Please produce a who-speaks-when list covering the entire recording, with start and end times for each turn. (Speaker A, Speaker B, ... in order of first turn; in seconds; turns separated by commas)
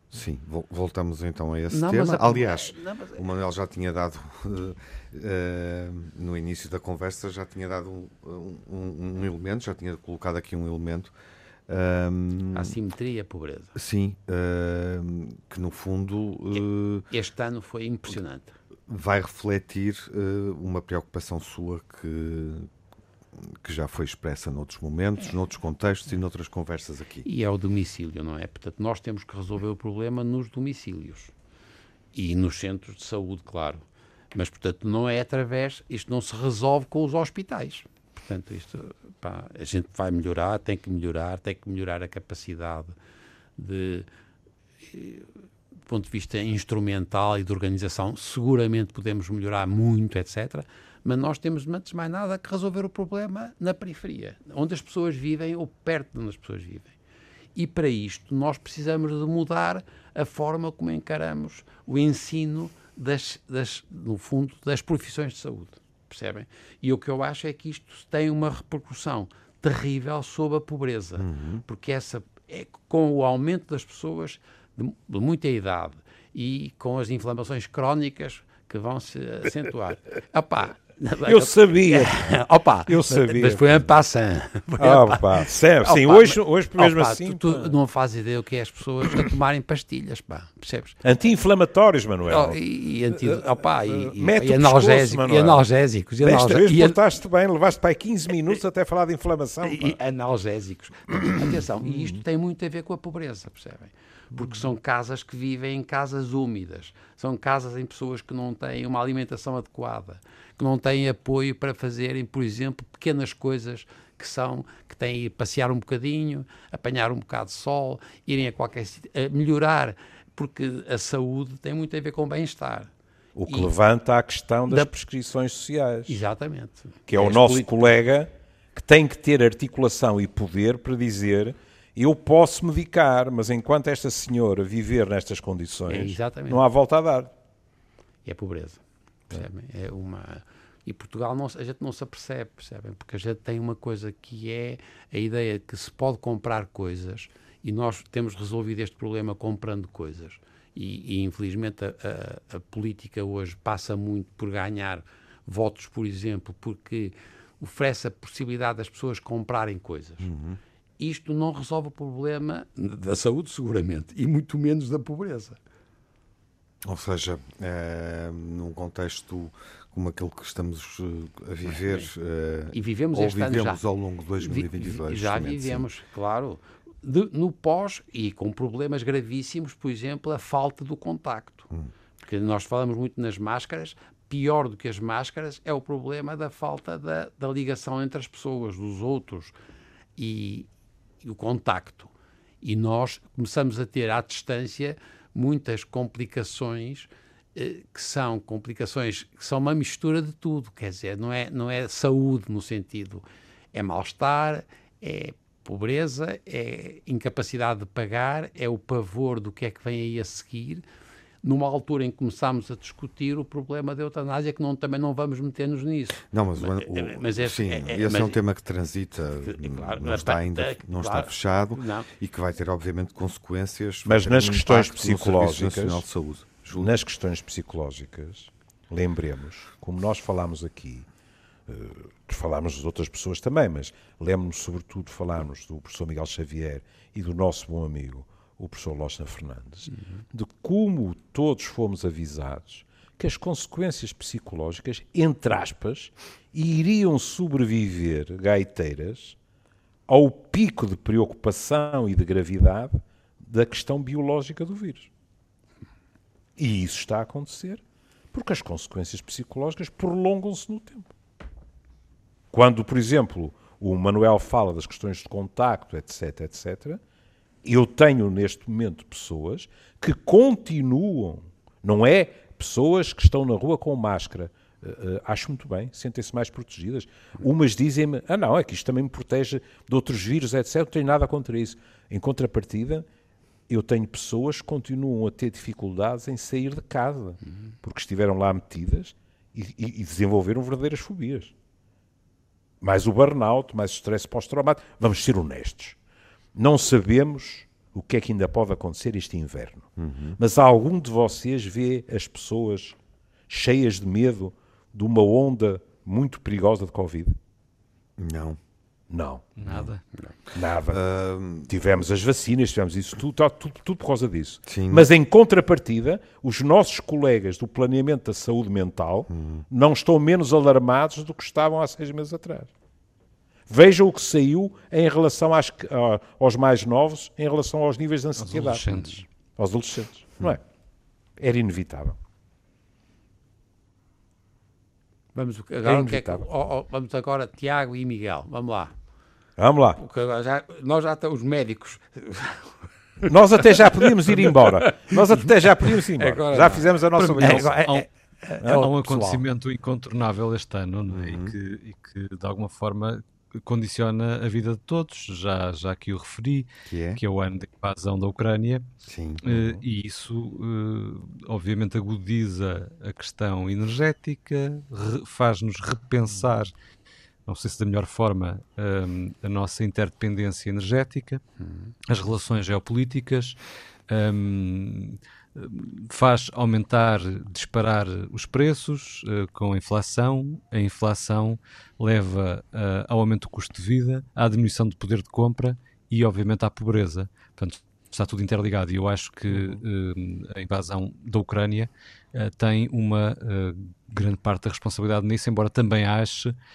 Speaker A: 0.1-11.1, Speaker B: 1.7-3.2, Speaker A: 11.7-12.7, Speaker B: 12.5-13.8, Speaker A: 13.8-17.1, Speaker B: 16.5-18.5, Speaker A: 18.9-22.7, Speaker A: 23.6-27.2, Speaker B: 27.2-31.3, Speaker B: 32.1-42.9, Speaker B: 43.6-44.1, Speaker B: 44.9-45.3, Speaker B: 45.9-57.0, Speaker B: 57.5-91.0, Speaker A: 71.2-71.6, Speaker C: 81.2-83.8, Speaker C: 84.8-87.8, Speaker C: 91.0-95.6, Speaker B: 92.2-97.0, Speaker C: 96.2-100.0, Speaker B: 99.6-122.9, Speaker C: 101.8-102.2, Speaker C: 104.3-104.6, Speaker C: 123.3-126.2, Speaker B: 123.5-123.7, Speaker B: 126.1-127.9, Speaker C: 127.1-137.3, Speaker B: 135.9-136.6, Speaker B: 138.2-160.3, Speaker A: 160.2-160.6, Speaker B: 161.0-165.6, Speaker A: 166.8-175.8, Speaker B: 171.7-172.1, Speaker B: 172.7-173.8, Speaker B: 174.4-181.7, Speaker B: 182.2-189.5, Speaker B: 190.2-190.7, Speaker B: 191.2-210.8, Speaker B: 211.4-218.4, Speaker A: 216.3-226.9, Speaker B: 219.4-222.1, Speaker C: 224.0-226.1, Speaker C: 226.7-231.1, Speaker C: 231.7-249.4, Speaker C: 250.1-255.1, Speaker C: 256.6-261.1, Speaker C: 262.5-267.0, Speaker C: 267.6-283.1, Speaker C: 283.7-291.5, Speaker C: 292.8-296.0, Speaker C: 296.5-303.0, Speaker A: 300.0-300.4, Speaker C: 303.5-307.4, Speaker A: 308.2-308.6, Speaker C: 309.1-309.5, Speaker D: 309.6-310.0, Speaker C: 310.5-311.0, Speaker A: 310.9-311.7, Speaker C: 311.7-322.7, Speaker A: 314.7-315.1, Speaker A: 319.3-319.6, Speaker C: 323.7-328.9, Speaker D: 328.4-329.2, Speaker C: 329.6-330.6, Speaker C: 331.4-332.2, Speaker B: 335.3-338.9, Speaker C: 335.8-336.4, Speaker C: 339.6-340.0, Speaker B: 340.0-349.4, Speaker C: 343.2-347.7, Speaker D: 347.1-348.1, Speaker C: 348.6-348.9, Speaker D: 348.6-358.9, Speaker A: 351.1-351.5, Speaker A: 356.9-357.2, Speaker A: 359.1-359.4, Speaker D: 359.4-366.7, Speaker C: 359.5-359.8, Speaker D: 367.4-371.4, Speaker D: 372.1-373.6, Speaker D: 374.1-396.5, Speaker C: 389.5-389.8